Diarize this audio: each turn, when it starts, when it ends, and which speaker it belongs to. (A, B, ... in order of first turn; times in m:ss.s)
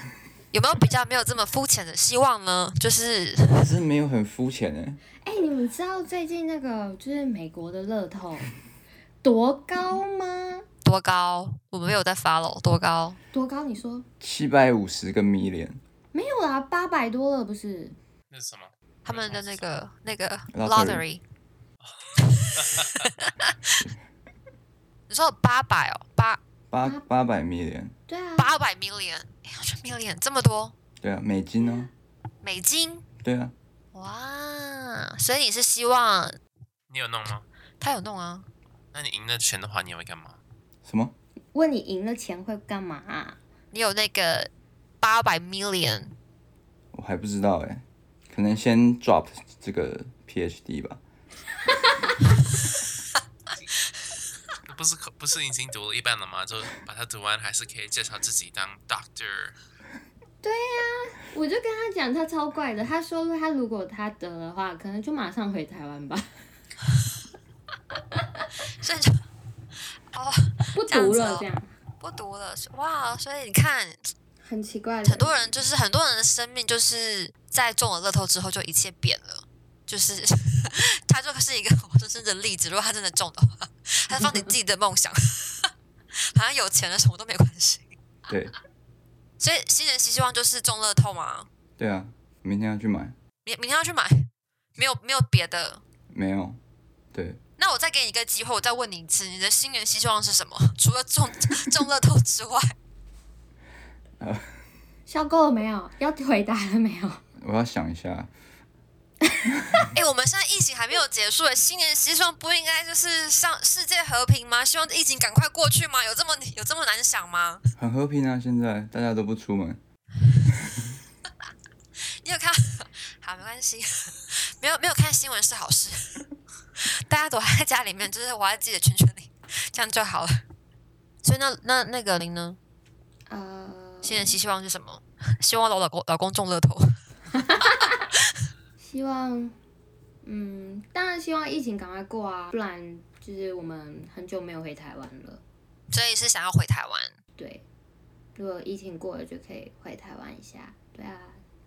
0:00.5-0:03.8 A
0:03.6-0:05.0 B
0:05.2-0:08.5 C
0:09.2-0:10.6 C
0:10.8-0:13.2 A
0:13.3-0:14.1 C
0:14.2-0:15.8 B
0:16.1-0:18.0 C
0:18.3-0:19.6 D
0:19.0-0:21.2 A
0:20.5-0:21.0 B
0:21.8-0:23.1 D
0:22.2-0:23.8 A
0:25.1-0:26.4 A
0:26.7-0:27.9 B
0:28.1-0:28.5 C
0:28.4-0:30.7 A
0:31.0-0:31.9 B
0:31.6-0:31.9 C
0:32.4-0:33.1 A
0:33.2-0:33.5 B
0:33.9-0:36.4 A
0:36.9-0:37.4 D
0:37.8-0:38.5 A
0:38.9-0:40.4 D
0:40.8-0:41.1 B
0:41.5-0:43.4 C
0:43.7-0:46.1 A
0:46.9-0:51.0 B
0:54.6-0:59.6 D
1:00.4-1:06.3 C
1:08.1-1:08.4 C
1:08.7-1:09.2 A
1:10.1-1:11.5 A
1:10.7-1:11.7 C
1:12.0-1:14.1 A
1:14.4-1:15.4 C
1:15.0-1:25.7 A
1:24.1-1:24.5 C
1:26.3-1:27.9 A
1:28.3-1:28.5 B
1:29.4-1:31.5 A
1:31.8-1:33.1 B
1:33.4-1:35.8 A
1:36.1-1:36.6 B
1:37.1-1:37.4 B
1:37.6-1:42.7 A
1:44.2-1:44.5 B
1:45.1-1:47.2 C
1:47.4-1:48.3 B
1:49.9-1:57.6 A
1:57.8-1:59.8 B
2:01.4-2:06.2 A
2:06.8-2:10.4 A
2:11.2-2:12.6 A
2:13.3-2:14.4 C
2:14.0-2:17.0 A
2:17.3-2:17.8 C
2:18.8-2:19.5 C
2:20.2-2:25.4 C
2:25.9-2:27.2 A
2:27.4-2:27.6 C
2:28.4-2:31.4 C